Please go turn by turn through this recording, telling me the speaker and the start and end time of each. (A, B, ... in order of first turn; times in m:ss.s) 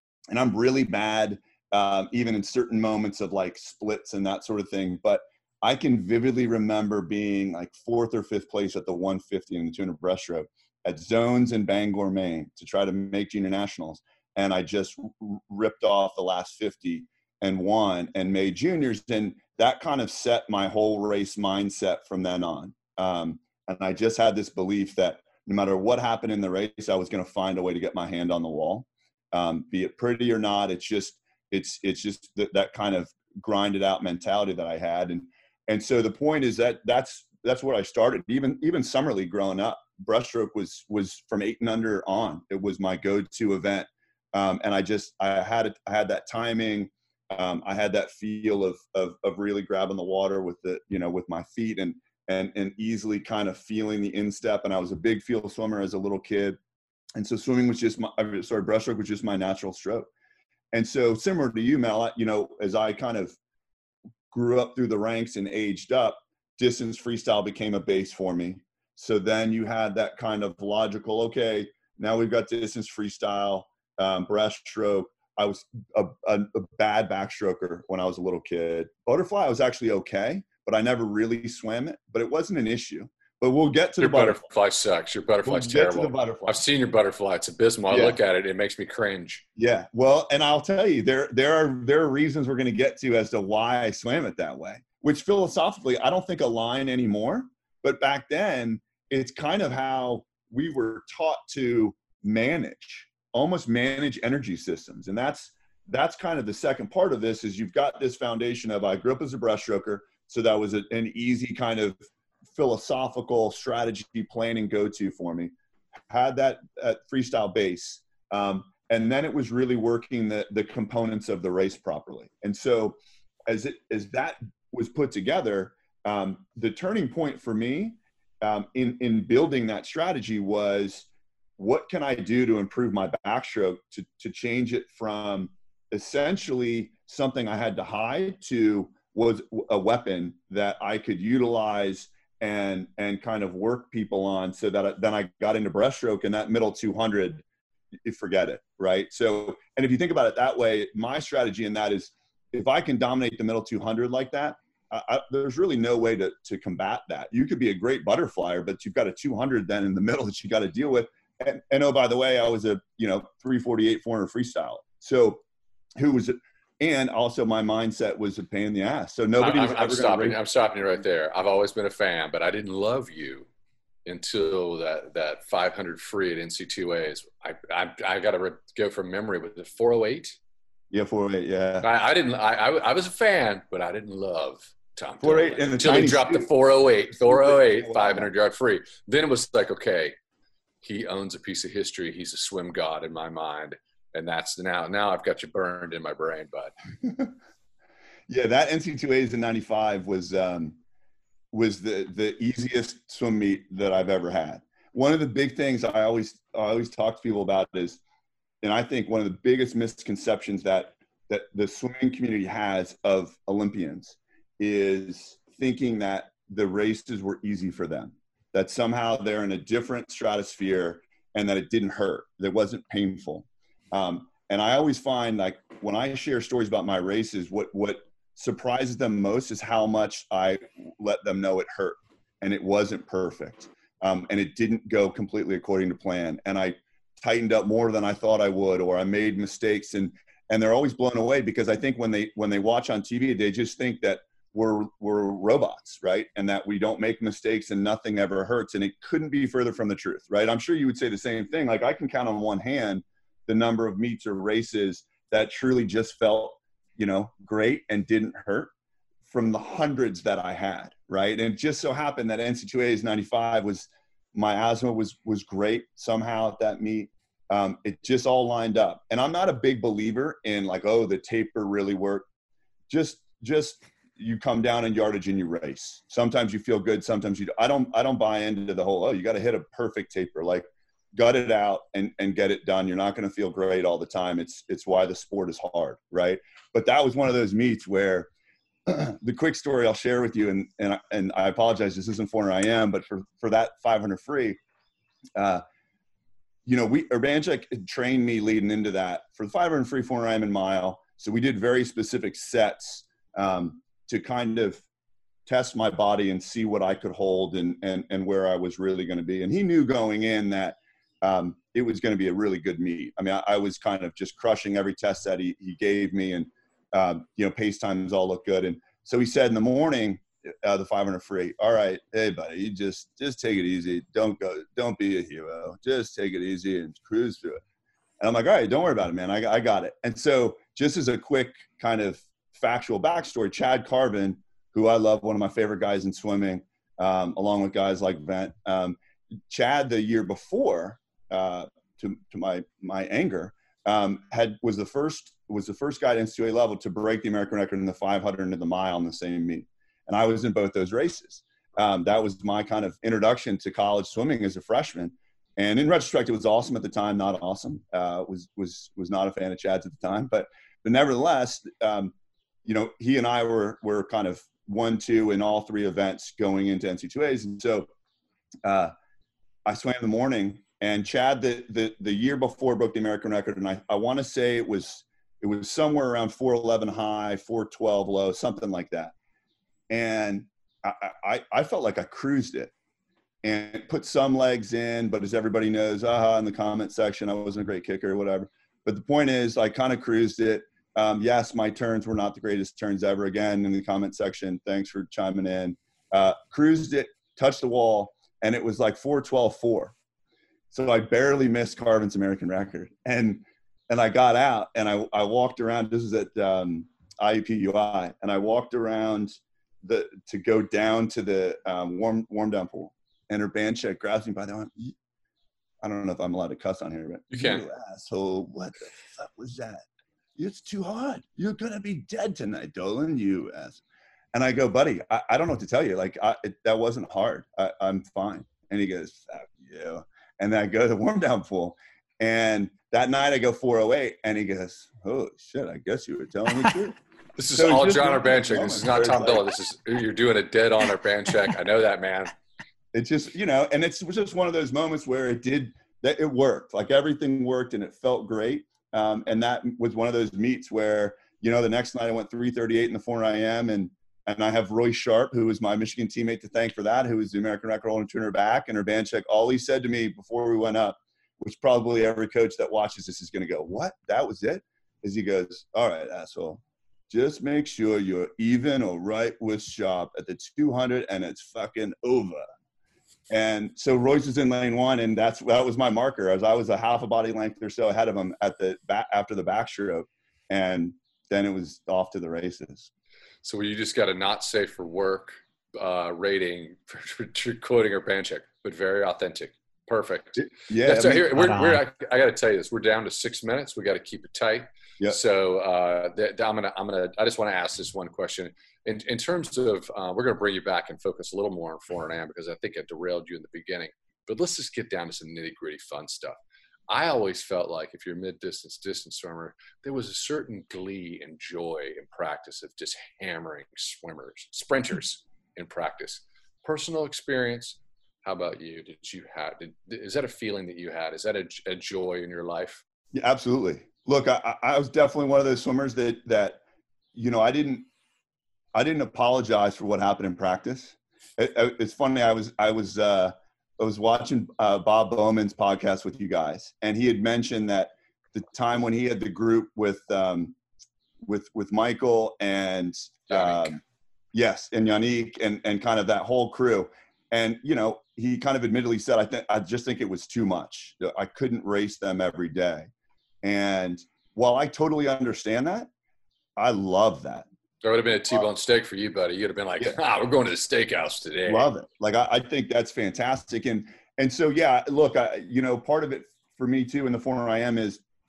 0:00.3-0:56.6 A
0:57.2-1:00.1 A
1:00.7-1:03.4 A
1:04.3-1:24.4 A
1:24.0-1:29.4 B
1:25.4-1:26.6 A
1:27.9-1:28.2 A
1:29.6-1:52.0 A
1:52.5-1:55.5 A
1:56.1-2:11.1 A
2:11.6-2:27.4 A
2:28.0-2:45.4 A
2:46.0-2:50.4 A
2:49.4-2:53.5 B
2:54.1-3:00.4 B
3:00.9-3:01.9 A
3:01.8-3:10.2 B
3:05.2-3:06.5 A
3:07.1-3:08.3 A
3:10.8-3:16.7 B
3:17.0-3:17.3 A
3:18.3-3:20.8 A
3:21.5-3:28.0 A
3:28.6-4:18.7 A
4:19.3-4:32.3 A
4:32.9-4:48.3 A
4:48.9-4:54.6 A
4:55.4-4:55.6 A
4:56.7-5:04.8 A
5:05.5-5:27.6 A
5:28.2-5:39.0 A
5:39.5-6:02.1 A
6:02.6-6:07.9 A
6:08.6-6:08.9 A
6:09.7-6:19.1 A
6:19.9-6:22.7 A
6:23.4-6:39.9 A
6:40.7-6:55.0 A
6:55.8-6:59.8 A
6:57.3-6:57.6 B
7:00.4-7:03.8 A
7:04.3-7:17.0 A
7:17.4-7:22.3 B
7:17.5-7:19.4 A
7:22.9-7:52.4 A
7:53.3-8:02.9 A
8:03.4-8:26.4 B
8:10.4-8:11.8 A
8:26.9-8:42.8 B
8:43.1-8:46.6 A
8:47.1-8:47.9 A
8:48.8-9:00.6 A
9:01.2-9:03.8 A
9:03.3-9:03.8 B
9:04.3-9:12.9 A
9:13.4-9:15.9 A
9:16.6-9:17.5 A
9:17.8-9:21.7 B
9:21.5-9:28.0 A